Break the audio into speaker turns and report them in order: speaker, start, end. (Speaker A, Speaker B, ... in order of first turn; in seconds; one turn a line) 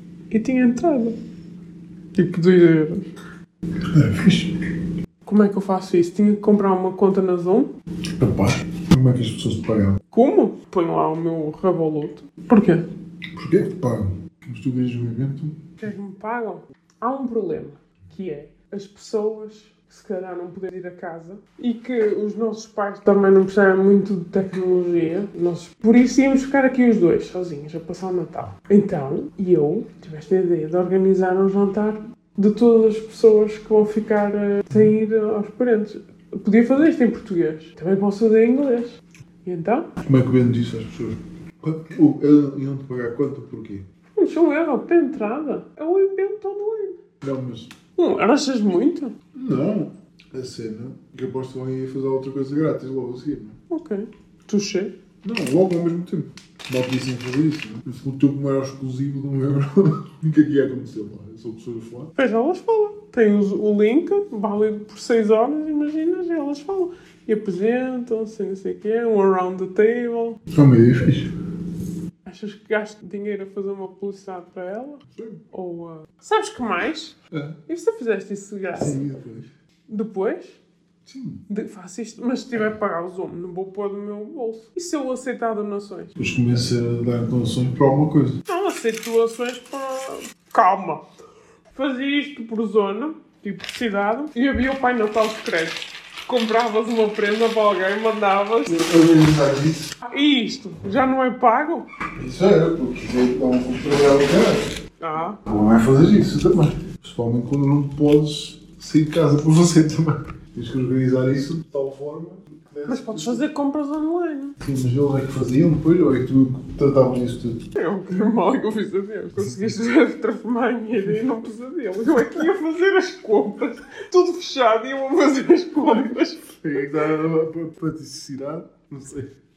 Speaker A: 0.3-1.2
Speaker A: 2.1-3.1
Speaker B: 3.9-4.6
Speaker A: 5.2-7.7
Speaker B: 8.2-10.0
Speaker A: 10.1-12.8
Speaker B: 13.3-15.7
Speaker A: 15.8-39.9
Speaker B: 40.0-43.8
Speaker A: 44.1-47.0
Speaker B: 47.2-47.7
Speaker A: 48.0-49.1
Speaker B: 49.3-53.6
Speaker A: 53.7-54.9
Speaker B: 55.2-62.1
Speaker A: 62.2-70.4
Speaker B: 70.5-71.3
Speaker A: 72.2-77.2
Speaker B: 75.1-75.4
Speaker B: 77.3-77.6
Speaker A: 77.7-79.0
Speaker B: 78.8-79.5
Speaker A: 79.9-80.6
Speaker B: 81.0-81.4
Speaker A: 81.5-86.1
Speaker B: 86.2-88.4
Speaker A: 88.5-91.0
Speaker A: 91.7-98.7
Speaker B: 98.7-99.9
Speaker A: 100.0-101.9
Speaker B: 102.1-104.7
Speaker A: 105.0-105.4
Speaker B: 105.5-113.5
Speaker A: 112.9-114.6
Speaker B: 114.6-117.7
Speaker A: 117.7-126.6
Speaker B: 126.6-129.3